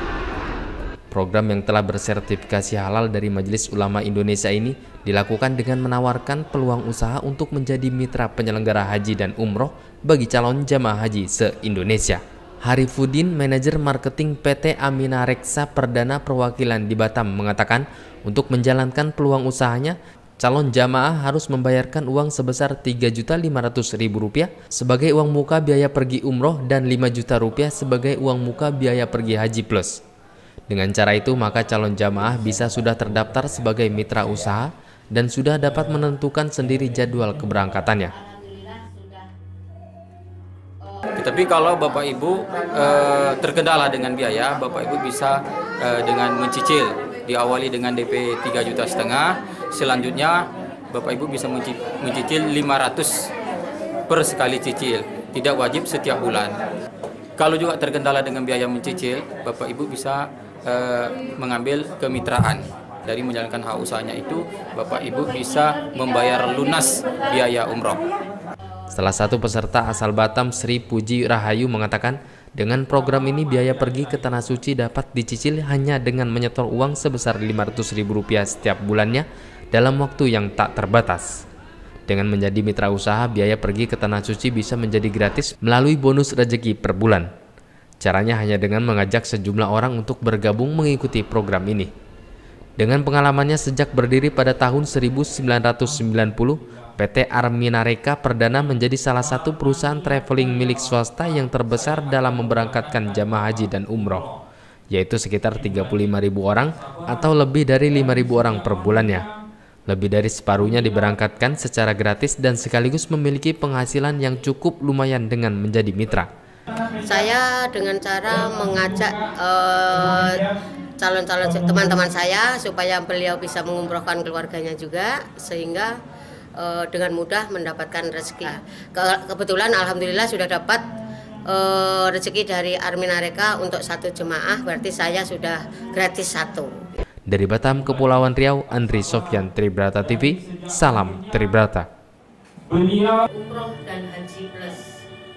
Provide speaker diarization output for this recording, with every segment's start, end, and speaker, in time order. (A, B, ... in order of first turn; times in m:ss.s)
0:01.1-0:30.0 A
0:30.7-0:38.2 A
0:41.1-0:53.3 B
0:54.1-0:56.6 B
0:57.4-1:08.0 B
1:08.9-1:21.4 A
1:22.1-1:27.3 A
1:28.0-1:31.9 A
1:32.8-1:44.3 A
1:44.9-1:49.3 A
1:49.9-1:56.3 A
1:57.0-2:05.9 C
2:06.6-2:10.8 C
2:11.4-2:16.7 C
2:17.3-2:21.9 A
2:22.7-2:23.2 B
2:23.2-2:24.9 C